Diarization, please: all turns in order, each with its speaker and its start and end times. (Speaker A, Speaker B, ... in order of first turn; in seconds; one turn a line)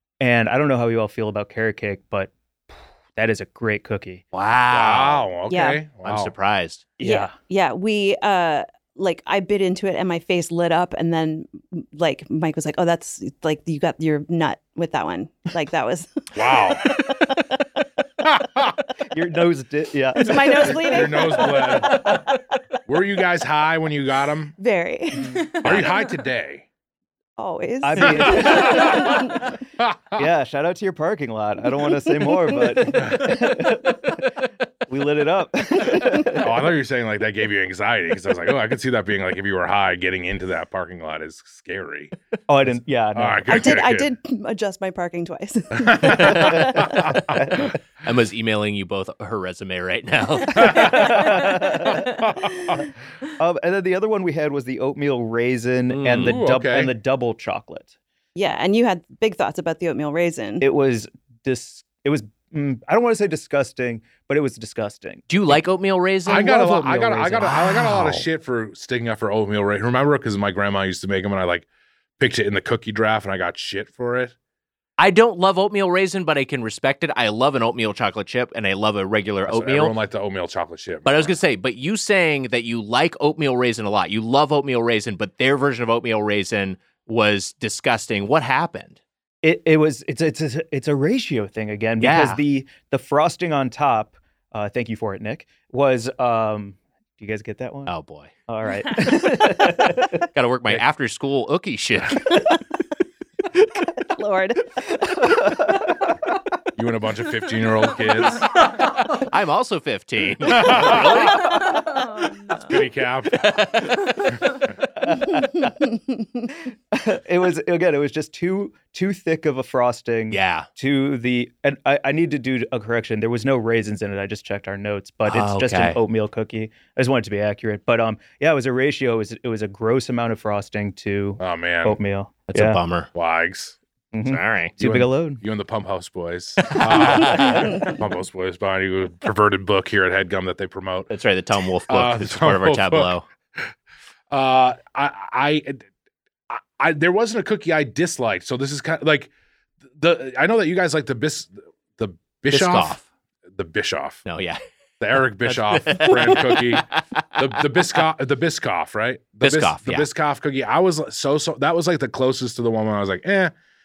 Speaker A: 0.2-4.2
Speaker B: 4.3-5.2
Speaker C: 4.7-6.3
Speaker D: 5.5-5.8
Speaker B: 6.0-6.8
Speaker A: 7.0-7.3
Speaker D: 7.0-17.2
Speaker C: 16.3-16.9
Speaker C: 18.2-18.8
Speaker A: 19.1-22.1
Speaker D: 20.1-22.4
Speaker C: 20.5-22.2
Speaker C: 22.9-24.5
Speaker D: 24.6-26.1
Speaker C: 25.6-26.6
Speaker D: 27.4-29.5
Speaker A: 27.8-29.2
Speaker C: 28.1-30.3
Speaker A: 30.1-34.3
Speaker D: 32.1-32.9
Speaker C: 32.9-33.5
Speaker A: 34.9-36.5
Speaker C: 36.2-42.1
Speaker A: 42.5-43.5
Speaker C: 43.1-44.1
Speaker D: 43.5-47.1
Speaker C: 45.7-47.4
Speaker B: 46.1-46.6
Speaker A: 47.2-47.7
Speaker B: 48.0-50.9
Speaker A: 50.5-52.1
Speaker C: 50.5-52.9
Speaker A: 53.4-57.9
Speaker B: 55.9-56.4
Speaker C: 56.2-56.9
Speaker D: 58.3-60.6
Speaker A: 60.6-65.3
Speaker B: 65.3-66.6
Speaker C: 66.2-71.7
Speaker A: 66.3-67.6
Speaker B: 67.4-68.2
Speaker C: 72.2-74.3
Speaker B: 75.0-79.9
Speaker C: 79.5-81.4
Speaker B: 81.0-89.0
Speaker A: 89.4-97.9
Speaker B: 92.0-92.4
Speaker B: 97.9-98.3
Speaker A: 98.5-100.2
Speaker B: 100.3-102.3
Speaker D: 104.0-105.5
Speaker A: 105.2-106.1
Speaker C: 106.8-108.5
Speaker B: 109.1-111.7
Speaker C: 110.4-111.5
Speaker A: 111.4-111.8
Speaker C: 112.5-114.6
Speaker B: 113.3-114.6
Speaker A: 114.9-115.8
Speaker D: 115.4-115.7
Speaker A: 116.7-132.8
Speaker B: 120.3-120.7
Speaker B: 125.2-126.0
Speaker C: 131.4-132.0
Speaker B: 132.5-133.1
Speaker C: 133.1-133.8
Speaker A: 134.1-135.4
Speaker B: 134.2-134.7
Speaker C: 134.8-141.1
Speaker B: 136.7-137.7
Speaker D: 137.2-137.9
Speaker B: 141.1-143.2
Speaker C: 141.9-143.7
Speaker C: 144.3-145.8
Speaker C: 146.5-149.3
Speaker C: 149.9-152.9
Speaker B: 152.5-153.0
Speaker C: 153.5-154.2
Speaker B: 154.2-154.6
Speaker C: 155.0-156.8
Speaker B: 155.4-158.0
Speaker C: 157.4-163.5
Speaker B: 159.4-160.1